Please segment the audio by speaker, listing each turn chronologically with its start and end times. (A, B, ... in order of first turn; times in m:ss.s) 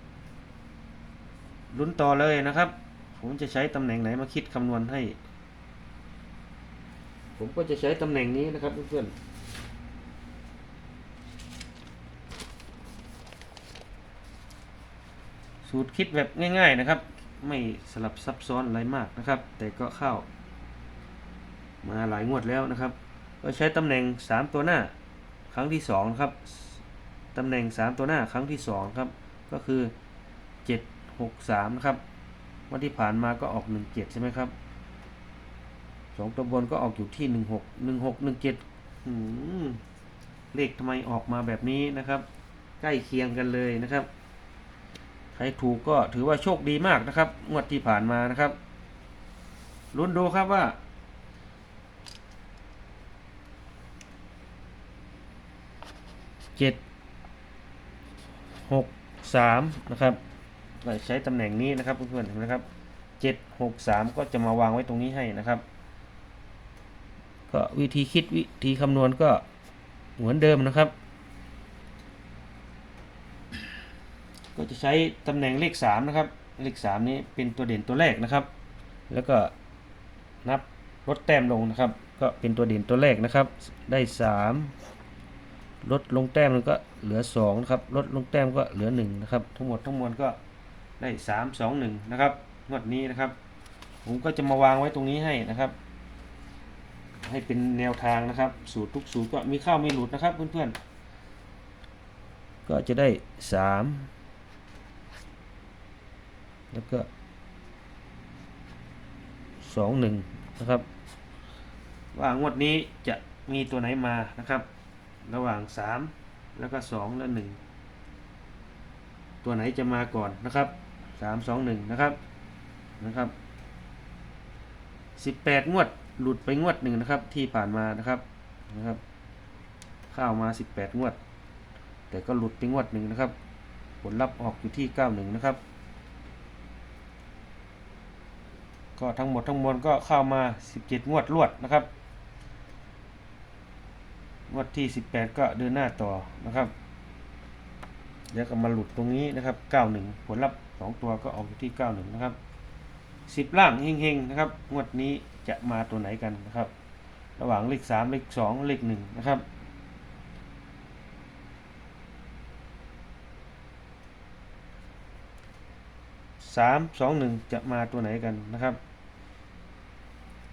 0:01.7-0:05.2 A
0:07.4-0:09.1 A
0:15.6-0:20.3 A
0:21.8-0:24.9 A
0:25.5-0:26.8 A
0:27.3-0:29.9 A
0:30.6-0:32.0 A
0:32.7-0:34.5 A
0:36.1-0:39.8 A
0:40.5-0:42.2 A
0:42.8-0:44.1 A
0:45.3-0:48.6 A
0:49.9-0:50.8 A
0:56.6-0:56.8 A
0:58.6-1:00.2 A
1:00.8-1:02.6 A
1:03.2-1:05.6 A
1:07.5-1:09.4 A
1:10.2-1:10.9 A
1:14.6-1:18.5 A
1:19.1-1:19.5 A
1:20.4-1:24.7 A
1:25.8-1:30.4 A
1:31.0-1:33.3 A
1:34.0-1:35.8 A
1:37.2-1:40.8 A
1:42.6-1:44.1 A
1:46.7-1:47.1 A
1:49.6-1:50.9 A
1:52.1-1:54.7 A
1:55.2-1:57.6 A
1:59.4-2:02.2 A
2:03.0-2:03.3 A
2:05.2-2:09.0 A
2:10.1-2:11.2 A
2:12.1-2:13.3 A
2:14.0-2:15.6 A
2:19.0-2:21.9 A
2:24.5-2:26.7 A
2:28.3-2:32.4 A
2:33.3-2:36.7 A
2:37.4-2:39.4 A
2:46.4-2:48.8 A